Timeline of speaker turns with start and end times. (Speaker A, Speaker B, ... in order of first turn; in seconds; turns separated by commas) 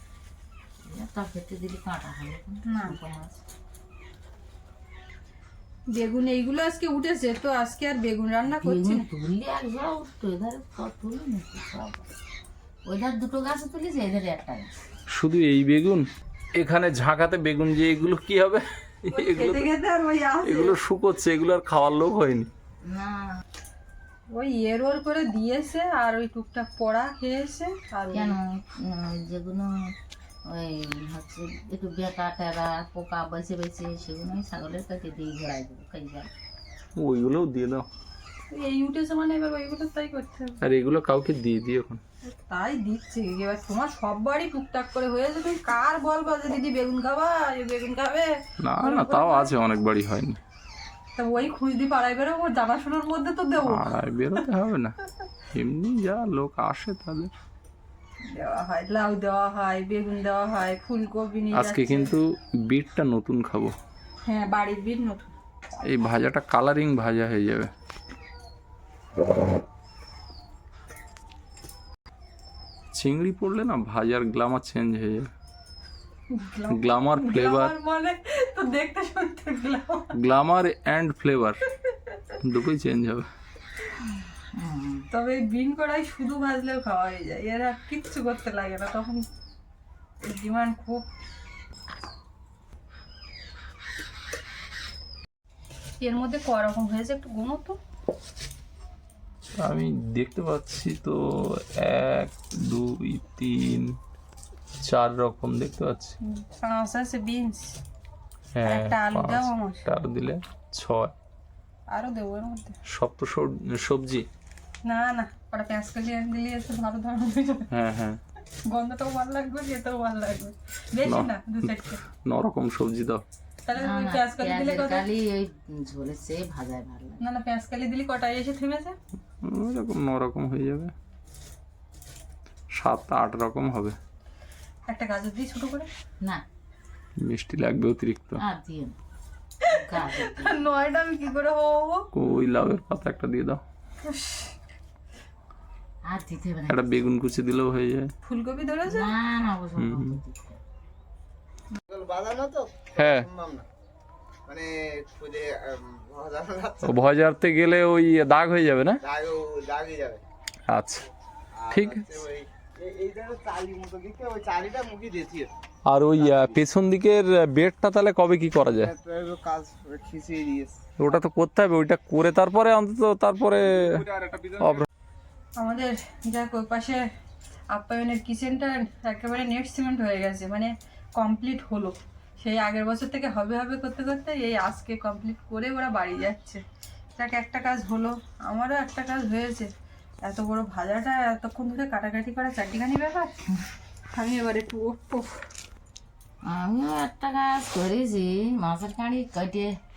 Speaker A: 0.8-3.4, Speaker B: 2.7-3.0, Speaker B: 5.9-9.1, Speaker A: 8.5-12.1, Speaker A: 12.9-14.7, Speaker C: 15.1-19.7, Speaker B: 19.1-20.8, Speaker C: 20.4-22.5, Speaker A: 22.8-23.4, Speaker B: 24.3-28.4, Speaker A: 28.1-29.9, Speaker A: 30.5-36.3, Speaker C: 37.0-37.9, Speaker B: 38.5-40.6, Speaker C: 40.6-42.0, Speaker B: 42.3-49.5, Speaker C: 48.6-50.4, Speaker B: 51.2-53.9, Speaker C: 53.6-55.0, Speaker C: 55.5-57.3, Speaker B: 58.3-62.1, Speaker C: 61.5-63.8, Speaker B: 64.3-65.3, Speaker C: 65.8-67.7, Speaker C: 72.9-75.3, Speaker B: 76.3-80.1, Speaker C: 76.7-77.8, Speaker C: 80.1-81.6, Speaker C: 82.4-83.3, Speaker A: 84.1-85.1, Speaker B: 85.1-89.3, Speaker B: 90.2-91.1, Speaker B: 96.0-97.8, Speaker C: 99.6-104.0, Speaker C: 104.8-106.2, Speaker B: 106.2-107.8, Speaker C: 108.5-111.1, Speaker B: 108.6-109.9, Speaker B: 111.9-112.8, Speaker C: 112.9-114.3, Speaker B: 114.8-117.7, Speaker C: 117.7-118.2, Speaker B: 118.7-122.0, Speaker C: 121.0-123.2, Speaker B: 123.7-125.0, Speaker A: 123.8-127.2, Speaker B: 127.2-129.0, Speaker C: 129.4-130.9, Speaker C: 132.7-134.0, Speaker B: 134.9-135.9, Speaker C: 137.2-138.4, Speaker A: 138.4-139.0, Speaker B: 139.6-142.1, Speaker A: 139.7-140.6, Speaker C: 142.1-143.6, Speaker B: 144.0-144.5, Speaker A: 146.1-146.9, Speaker C: 146.7-148.1, Speaker B: 148.2-149.1, Speaker A: 148.9-150.6, Speaker C: 149.8-150.2, Speaker D: 151.9-153.7, Speaker C: 153.0-153.3, Speaker D: 154.5-157.2, Speaker C: 156.8-159.0, Speaker D: 159.0-160.2, Speaker C: 160.7-161.1, Speaker D: 161.6-165.5, Speaker C: 161.7-162.0, Speaker C: 165.9-168.9, Speaker D: 166.2-166.6, Speaker D: 168.7-170.8, Speaker C: 171.0-174.1, Speaker D: 173.8-174.6, Speaker C: 174.6-174.9, Speaker B: 175.6-177.0, Speaker B: 177.7-186.6, Speaker B: 187.2-189.7, Speaker B: 190.2-193.3, Speaker B: 194.2-195.4, Speaker A: 196.4-199.8